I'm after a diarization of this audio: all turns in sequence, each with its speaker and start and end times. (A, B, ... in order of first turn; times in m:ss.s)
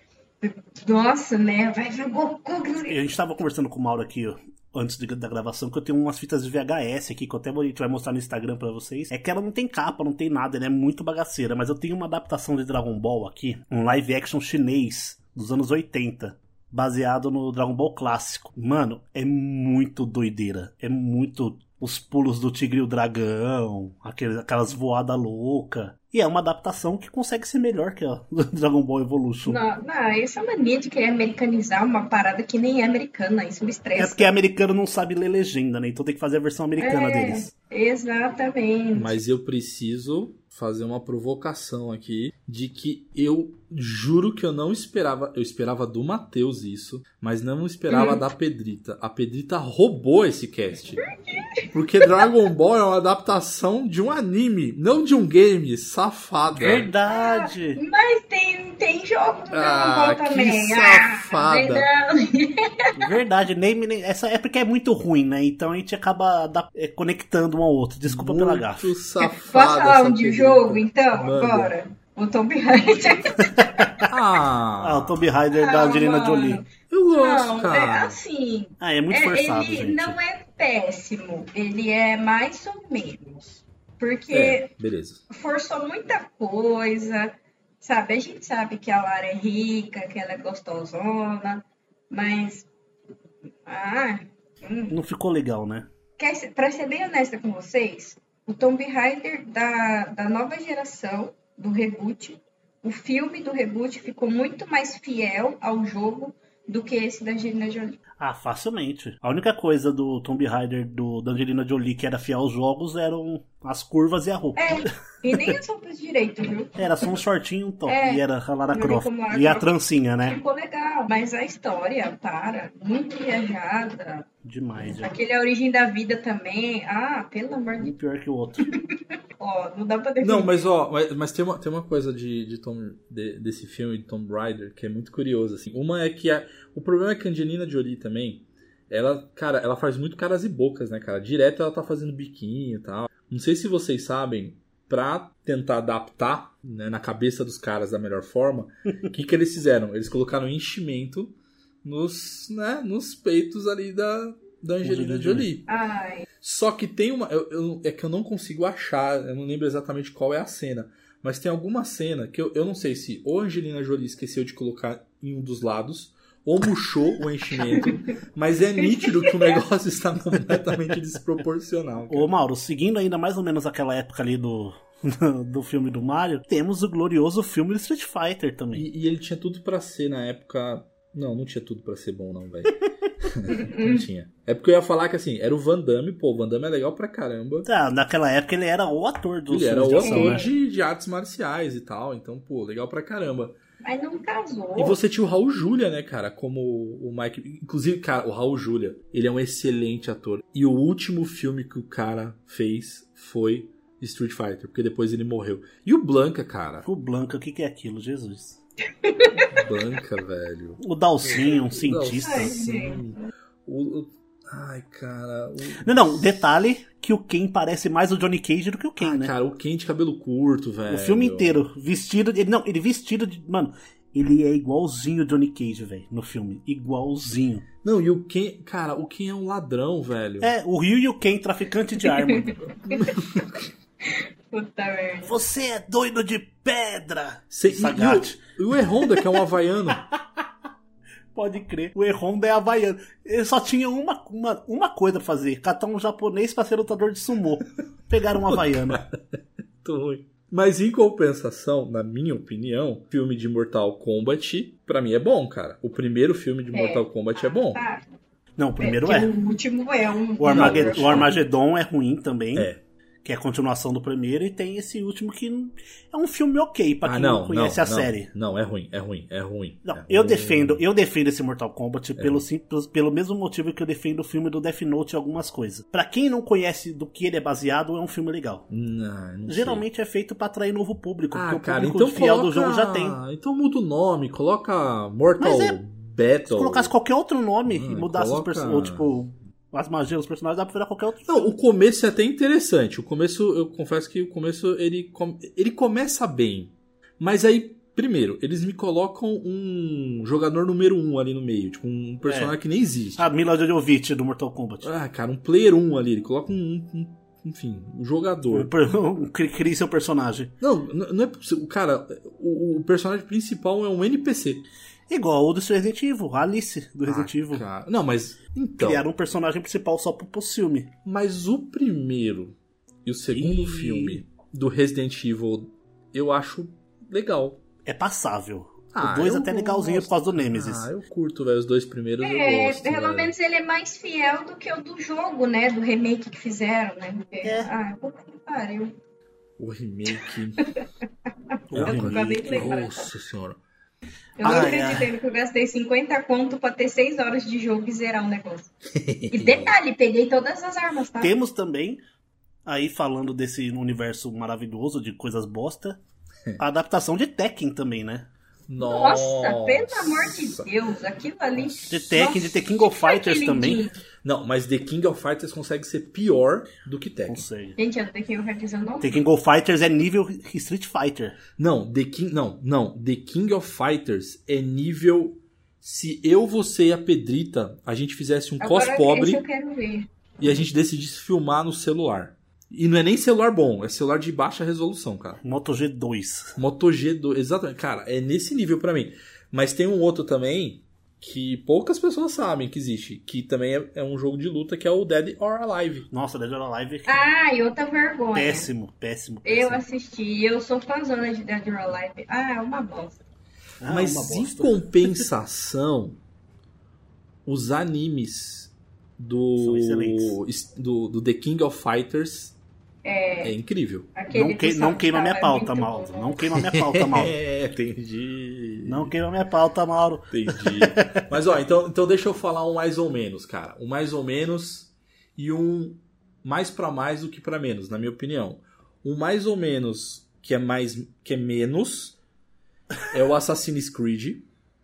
0:00.4-0:03.0 A
0:02.8-0:29.6 B
0:29.4-0:34.3 A
0:33.9-0:37.5 B
0:36.8-0:39.1 A
0:38.9-0:51.0 C
0:47.9-0:48.2 A
0:51.7-0:56.9 C
0:56.5-0:57.8 B
0:57.1-1:02.9 A
0:59.5-1:01.9 C
1:03.0-1:08.9 B
1:08.0-1:11.7 C
1:09.2-1:14.0 A
1:13.6-1:14.0 B
1:14.1-1:15.2 C
1:14.8-1:16.6 B
1:15.5-1:16.6 A
1:16.9-1:18.2 C
1:17.1-1:24.7 A
1:18.8-1:20.2 B
1:24.3-1:25.2 C
1:25.3-1:32.7 A
1:33.6-1:34.9 A
1:34.9-1:35.9 B
1:36.2-1:48.0 A
1:48.2-1:55.6 B
1:54.6-1:57.1 A
1:56.8-2:00.4 B
1:57.8-1:59.7 A
2:00.2-2:04.2 A
2:04.4-2:05.1 B
2:05.0-2:07.9 A
2:07.8-2:08.7 B
2:09.4-2:10.5 A
2:10.2-2:35.7 C
2:34.8-2:35.5 B
2:35.7-2:36.2 A
2:36.4-2:52.3 C
2:52.1-2:58.8 B
2:58.7-3:07.7 C
3:03.5-3:04.0 A
3:07.6-3:10.5 B
3:09.5-3:13.6 C
3:10.0-3:10.5 A
3:13.8-3:15.0 A
3:14.8-3:26.8 C
3:26.8-3:28.6 B
3:29.0-3:29.5 A
3:29.4-3:36.4 C
3:30.8-3:32.6 B
3:32.2-3:33.0 A
3:35.8-3:39.3 B
3:39.0-3:41.6 C
3:40.9-3:47.6 B
3:47.8-3:50.5 C
3:50.4-3:52.6 B
3:52.2-3:53.1 A
3:52.9-3:53.6 C
3:54.1-3:55.4 A
3:55.2-3:58.4 B
3:57.5-4:00.0 C
4:00.1-4:00.5 B
4:01.3-4:09.0 B
4:08.5-4:09.2 C
4:09.8-4:17.8 C
4:16.7-4:18.0 A
4:18.6-4:19.3 B
4:18.8-4:21.3 A
4:20.4-4:22.7 B
4:20.5-4:21.4 C
4:22.5-4:22.8 C
4:23.2-4:28.3 B
4:27.0-4:30.8 C
4:29.9-4:38.6 B
4:32.2-4:32.4 C
4:38.7-4:39.8 C
4:39.5-4:43.2 B
4:41.3-4:46.9 C
4:45.4-4:45.8 B
4:46.5-4:51.4 B
4:47.7-4:49.0 C
4:51.2-5:03.3 C
5:02.2-5:02.6 B
5:03.2-5:04.9 B
5:04.8-5:08.7 C
5:08.5-5:10.5 B
5:10.6-5:14.6 C
5:15.1-5:17.6 B
5:17.1-5:19.0 C
5:18.8-5:20.9 B
5:21.0-5:27.6 C
5:23.3-5:24.2 B
5:27.8-5:30.9 B
5:28.9-5:33.3 C
5:32.2-5:38.9 A
5:37.4-5:37.7 B
5:39.6-5:40.7 C
5:41.7-5:42.7 B
5:41.7-5:43.6 C
5:41.8-5:43.1 A
5:44.4-5:48.7 A
5:44.4-5:45.1 B
5:48.9-5:49.8 C
5:49.3-5:51.3 A
5:51.2-5:52.0 B
5:52.6-5:56.0 B
5:56.6-5:58.3 B
5:58.7-6:00.7 C
5:58.8-6:04.0 A
6:01.9-6:03.8 B
6:04.2-6:07.5 C
6:07.3-6:07.8 B
6:07.8-6:09.2 A
6:09.0-6:11.4 B
6:11.6-6:19.4 C
6:18.6-6:20.1 A
6:20.4-6:25.4 C
6:25.4-6:26.5 B
6:26.6-6:36.0 C
6:36.1-6:37.3 B
6:37.0-6:38.7 A
6:38.3-6:39.8 B
6:39.4-6:43.2 A
6:43.8-6:45.2 B
6:43.8-6:46.2 C
6:47.4-6:52.6 C
6:49.6-6:50.4 B
6:53.0-6:53.5 A
6:53.4-6:54.1 C
6:54.1-6:56.4 A
6:54.3-6:57.3 B
6:56.6-6:59.1 C
6:58.8-7:01.2 B
7:00.3-7:12.2 C
7:13.1-7:14.4 C